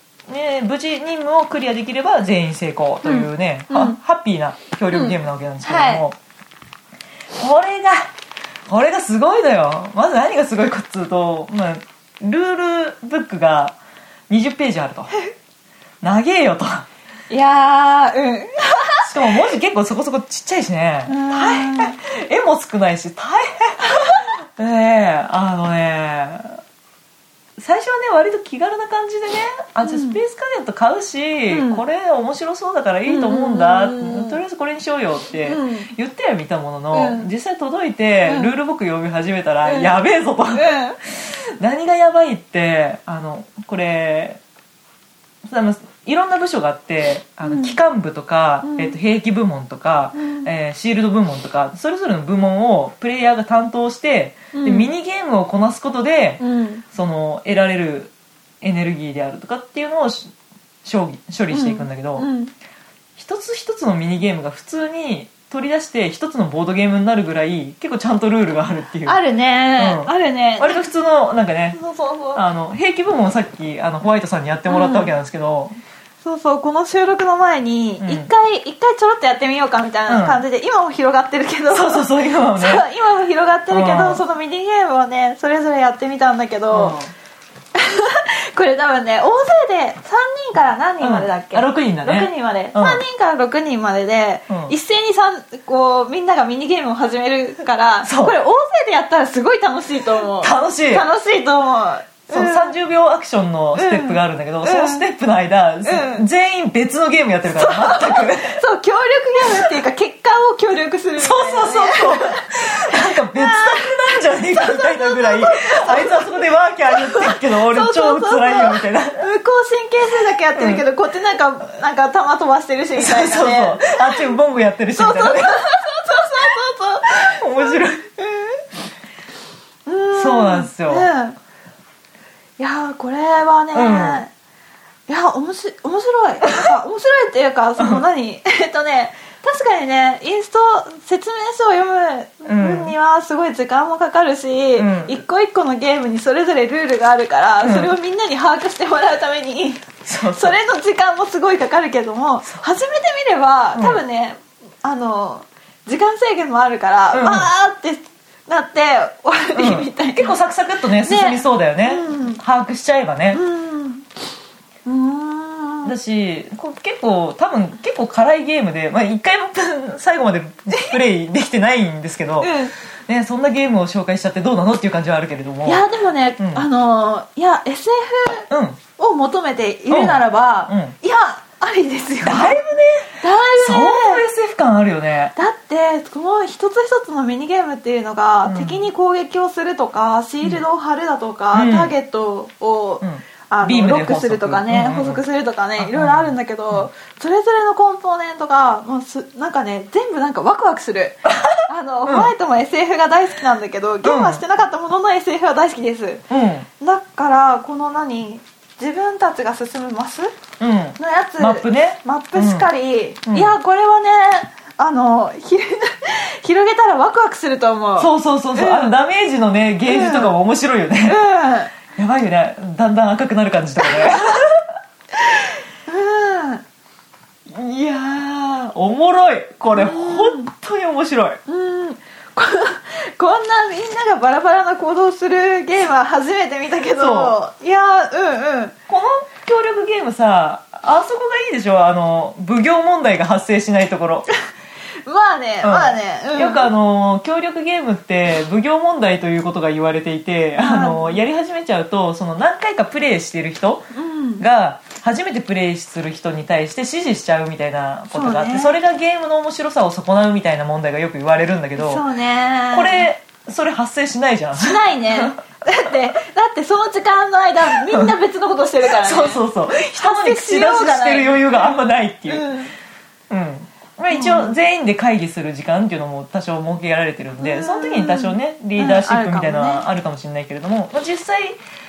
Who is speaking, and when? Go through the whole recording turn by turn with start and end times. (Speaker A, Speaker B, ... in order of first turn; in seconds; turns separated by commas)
Speaker A: 0.3-6.2, Speaker B: 3.0-4.0, Speaker B: 4.9-6.0, Speaker A: 7.3-8.1, Speaker A: 8.7-13.8, Speaker A: 14.3-15.1, Speaker A: 16.0-16.9, Speaker B: 17.3-19.1, Speaker A: 19.0-26.6, Speaker B: 21.1-22.0, Speaker B: 23.9-24.2, Speaker A: 27.6-44.4, Speaker B: 29.8-30.2, Speaker B: 31.5-31.8, Speaker B: 33.0-34.4, Speaker B: 35.4-35.9, Speaker B: 36.9-37.3, Speaker B: 38.2-38.5, Speaker B: 39.6-39.9, Speaker B: 40.5-41.0, Speaker A: 45.4-60.3, Speaker B: 47.4-47.8, Speaker B: 48.6-49.0, Speaker B: 50.1-50.5, Speaker B: 54.5-54.9, Speaker B: 56.4-56.8, Speaker A: 60.8-62.3, Speaker B: 61.5-62.5, Speaker A: 63.2-69.2, Speaker B: 69.0-70.9, Speaker A: 69.8-71.8, Speaker B: 71.7-72.4, Speaker A: 72.3-75.8, Speaker B: 74.7-75.1, Speaker B: 76.2-87.0, Speaker A: 78.0-78.3, Speaker A: 80.1-80.4, Speaker A: 81.7-82.8, Speaker A: 83.7-84.2, Speaker A: 86.7-87.1, Speaker B: 87.7-102.7, Speaker A: 91.0-93.0, Speaker A: 94.5-94.7, Speaker A: 98.0-98.4, Speaker A: 100.4-101.0, Speaker A: 102.3-108.6, Speaker B: 103.7-105.0, Speaker B: 105.8-106.2, Speaker B: 107.5-124.3, Speaker A: 111.2-119.2, Speaker A: 120.5-120.8, Speaker A: 123.0-125.6, Speaker B: 125.0-128.6, Speaker A: 127.1-128.0, Speaker B: 129.8-131.4, Speaker A: 130.1-131.1, Speaker B: 132.6-134.3, Speaker A: 133.7-134.2, Speaker B: 135.1-160.3, Speaker A: 137.8-138.0, Speaker A: 142.4-142.9, Speaker A: 144.8-145.2, Speaker A: 147.6-147.9, Speaker A: 150.0-150.6, Speaker A: 153.7-154.0, Speaker A: 157.1-157.5, Speaker A: 159.5-163.4, Speaker B: 161.0-162.4, Speaker B: 163.3-164.1, Speaker B: 164.8-165.9, Speaker A: 165.8-175.8, Speaker B: 170.7-171.0, Speaker B: 172.4-172.7, Speaker B: 175.7-182.6, Speaker A: 176.4-176.7, Speaker A: 178.5-178.8, Speaker A: 179.9-180.9, Speaker A: 182.2-185.3, Speaker B: 183.2-184.2, Speaker B: 185.3-206.2, Speaker A: 188.4-188.9, Speaker A: 191.5-191.9, Speaker A: 193.0-195.2, Speaker A: 195.8-196.9, Speaker A: 201.3-202.3, Speaker A: 204.0-204.4, Speaker A: 206.3-206.7, Speaker B: 206.8-210.3, Speaker A: 210.6-212.7, Speaker B: 211.0-218.9, Speaker A: 213.2-213.5, Speaker A: 218.0-221.2, Speaker B: 219.8-220.4, Speaker B: 221.0-221.8, Speaker A: 221.9-224.6, Speaker B: 223.8-224.4, Speaker B: 225.2-226.6, Speaker A: 227.5-231.4, Speaker B: 229.7-230.5, Speaker B: 231.5-238.7, Speaker A: 236.9-237.3, Speaker A: 238.9-244.2, Speaker B: 245.1-246.7, Speaker A: 245.6-253.9, Speaker B: 250.6-251.2, Speaker B: 253.9-254.4, Speaker A: 254.4-262.0, Speaker B: 258.1-258.8, Speaker B: 261.8-263.1, Speaker A: 262.7-265.4, Speaker B: 264.6-272.7, Speaker A: 268.9-272.5, Speaker A: 273.3-281.6, Speaker B: 274.1-274.6, Speaker B: 277.4-279.8